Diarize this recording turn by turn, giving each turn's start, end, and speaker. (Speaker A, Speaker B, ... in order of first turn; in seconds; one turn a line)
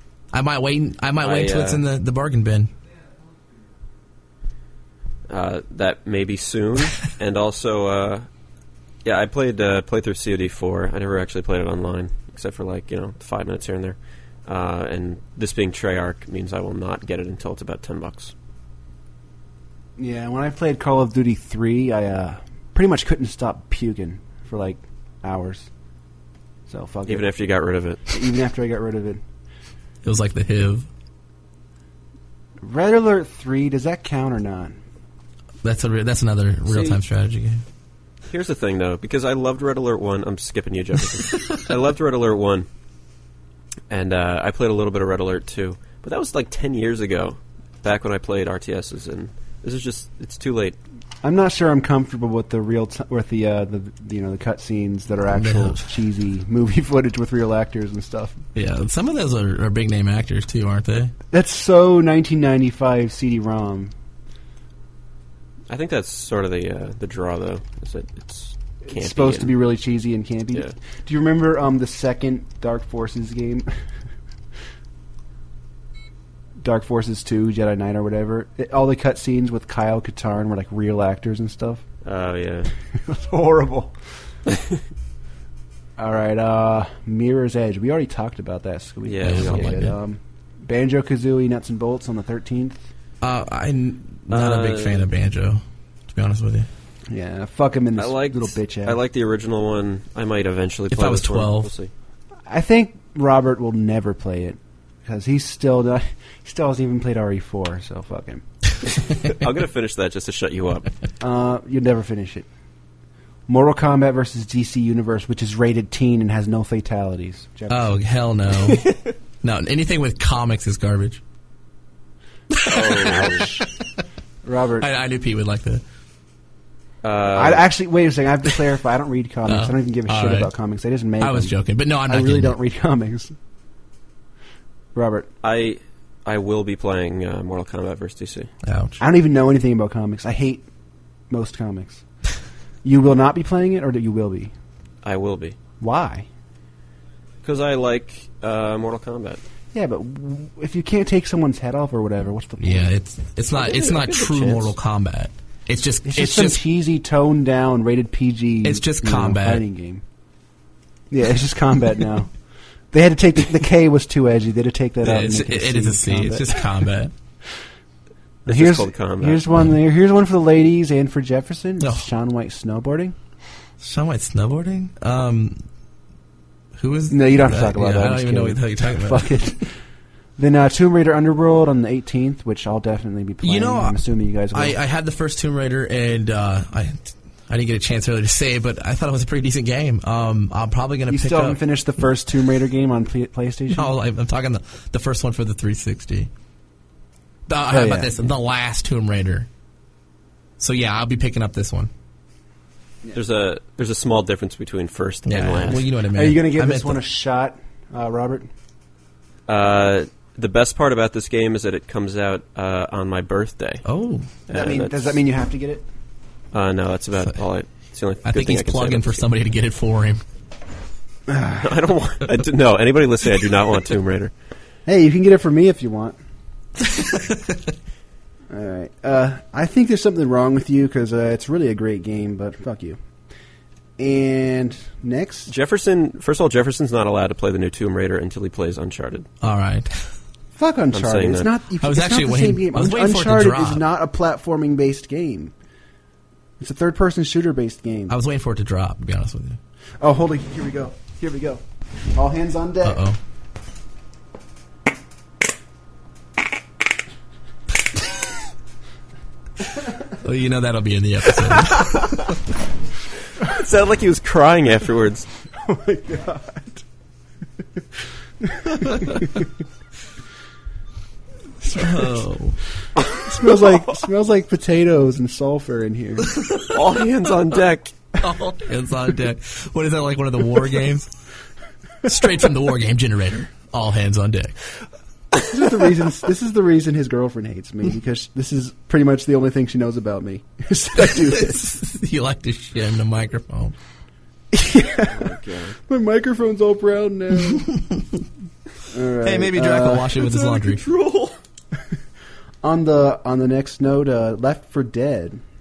Speaker A: 0.3-2.7
Speaker B: 1.2-1.8
Speaker B: 5.3-8.3
Speaker B: 9.0-18.3
Speaker C: 20.0-25.7
Speaker C: 26.7-27.3
Speaker B: 27.1-28.0
Speaker C: 28.1-29.2
Speaker A: 30.0-30.9
Speaker C: 32.6-34.8
Speaker A: 35.6-37.6
Speaker B: 36.7-37.0
Speaker B: 38.3-42.7
Speaker B: 43.9-50.8
Speaker C: 51.2-58.4
Speaker A: 55.3-55.9
Speaker A: 58.5-61.1
Speaker C: 61.3-63.9
Speaker B: 65.7-69.6
Speaker C: 68.8-73.7
Speaker C: 76.6-81.8
Speaker B: 82.0-82.7
Speaker C: 83.0-83.9
Speaker C: 86.0-92.8
Speaker B: 89.0-89.9
Speaker A: 89.2-90.0
Speaker A: 93.2-96.7
Speaker B: 94.3-95.1
Speaker C: 97.1-99.0
Speaker B: 98.0-101.9
Speaker A: 100.9-101.7
Speaker C: 102.5-108.4
Speaker B: 109.2-110.9
Speaker C: 111.2-112.5
Speaker C: 113.5-118.0
Speaker A: 117.7-118.9
Speaker B: 118.7-119.1
Speaker A: 119.4-121.2
Speaker A: 122.5-123.5
Speaker B: 122.6-123.5
Speaker C: 123.2-123.6
Speaker C: 124.5-124.9
Speaker A: 124.8-125.8
Speaker B: 127.0-127.7
Speaker C: 127.3-131.6
Speaker A: 129.5-130.5
Speaker A: 131.2-132.6
Speaker C: 132.1-133.3
Speaker C: 134.9-135.3
Speaker B: 135.4-138.5
Speaker A: 138.6-139.0
Speaker C: 139.0-140.7
Speaker C: 141.3-142.0
Speaker C: 142.8-144.5
Speaker B: 145.0-145.6
Speaker C: 145.8-146.3
Speaker B: 147.4-149.4
Speaker C: 149.7-152.9
Speaker A: 152.6-156.6
Speaker B: 153.5-154.8
Speaker C: 156.1-160.0
Speaker A: 158.6-159.6
Speaker C: 161.1-162.3
Speaker C: 162.9-166.7
Speaker A: 165.0-167.1
Speaker B: 168.5-169.5
Speaker C: 168.5-173.2
Speaker A: 171.8-172.1
Speaker A: 173.8-175.6
Speaker A: 176.8-179.4
Speaker C: 177.1-179.7
Speaker C: 180.4-184.8
Speaker A: 183.4-184.0
Speaker A: 184.5-191.6
Speaker C: 191.1-193.9
Speaker A: 193.8-196.3
Speaker A: 197.5-199.5
Speaker C: 197.7-198.3
Speaker A: 200.6-201.9
Speaker B: 203.1-205.8
Speaker A: 205.3-207.0
Speaker C: 206.1-208.5
Speaker B: 209.5-213.8
Speaker A: 213.8-214.3
Speaker B: 214.5-215.2
Speaker C: 214.5-215.9
Speaker B: 216.5-219.3
Speaker A: 218.2-220.2
Speaker C: 221.3-221.7
Speaker B: 221.6-224.3
Speaker C: 224.9-226.2
Speaker A: 226.9-227.5
Speaker C: 228.5-233.0
Speaker C: 234.0-235.5
Speaker B: 235.5-239.3
Speaker A: 239.4-240.1
Speaker C: 240.6-245.5
Speaker B: 240.9-241.5
Speaker A: 241.8-243.8
Speaker C: 246.6-248.2
Speaker A: 248.1-249.6
Speaker C: 250.0-251.6
Speaker C: 252.2-253.1
Speaker A: 252.8-253.2
Speaker A: 260.1-262.2
Speaker B: 261.6-262.2
Speaker B: 263.4-265.3
Speaker C: 265.6-266.8
Speaker C: 268.4-269.4
Speaker A: 268.9-269.2
Speaker C: 271.6-272.2
Speaker A: 271.8-272.6
Speaker B: 273.0-273.8
Speaker C: 273.2-276.4
Speaker A: 276.3-276.8
Speaker B: 276.7-277.9
Speaker A: 278.2-281.1
Speaker A: 282.0-284.6
Speaker C: 285.5-291.6
Speaker A: 291.1-293.8
Speaker C: 294.5-295.4
Speaker B: 295.1-295.8
Speaker C: 295.9-297.7
Speaker C: 298.9-300.8
Speaker A: 299.2-300.9
Speaker B: 301.0-301.3
Speaker C: 302.6-305.4